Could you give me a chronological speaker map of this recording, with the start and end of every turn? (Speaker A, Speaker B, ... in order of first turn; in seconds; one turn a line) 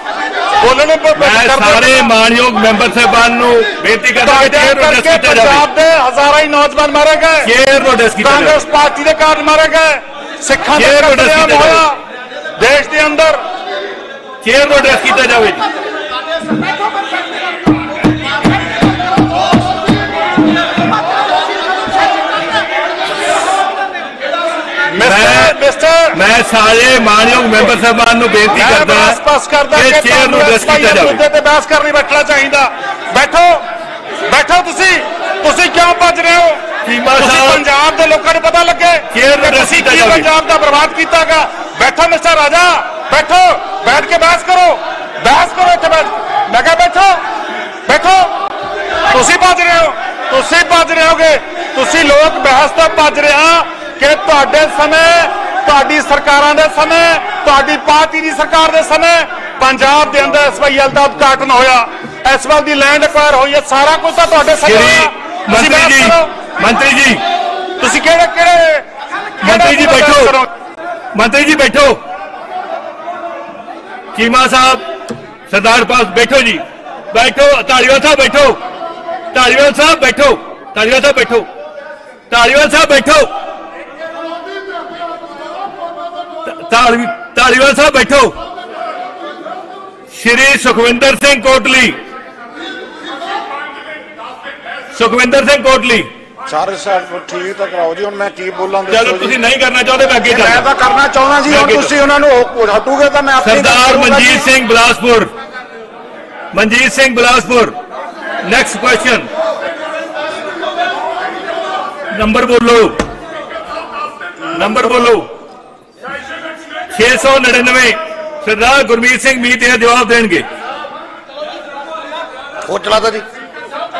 Speaker A: 0.6-2.1
Speaker B: 1.2-5.7
Speaker A: 4.2-7.5
Speaker B: 7.4-8.6
Speaker A: 8.2-12.0
Speaker B: 10.7-11.8
Speaker A: 12.6-13.4
Speaker B: 14.4-15.7
Speaker A: 24.9-26.2
Speaker B: 25.0-25.6
Speaker B: 26.1-29.2
Speaker A: 28.5-33.6
Speaker B: 29.7-31.2
Speaker A: 34.2-36.6
Speaker B: 36.9-37.6
Speaker A: 37.2-47.2
Speaker B: 39.1-40.3
Speaker A: 47.9-48.3
Speaker A: 49.1-66.4
Speaker B: 64.6-67.2
Speaker A: 67.8-68.8
Speaker B: 69.4-70.3
Speaker A: 69.4-70.5
Speaker B: 71.1-72.0
Speaker B: 74.1-78.6
Speaker B: 79.3-81.5
Speaker B: 82.3-83.3
Speaker B: 86.5-88.4
Speaker B: 90.1-92.0
Speaker B: 94.9-96.1
Speaker C: 96.5-99.4
Speaker B: 98.9-100.7
Speaker C: 100.3-104.5
Speaker B: 101.4-102.0
Speaker B: 103.4-105.3
Speaker B: 106.5-107.8
Speaker B: 108.4-109.3
Speaker B: 112.1-113.0
Speaker B: 114.5-115.3
Speaker B: 116.9-120.5
Speaker C: 122.7-123.2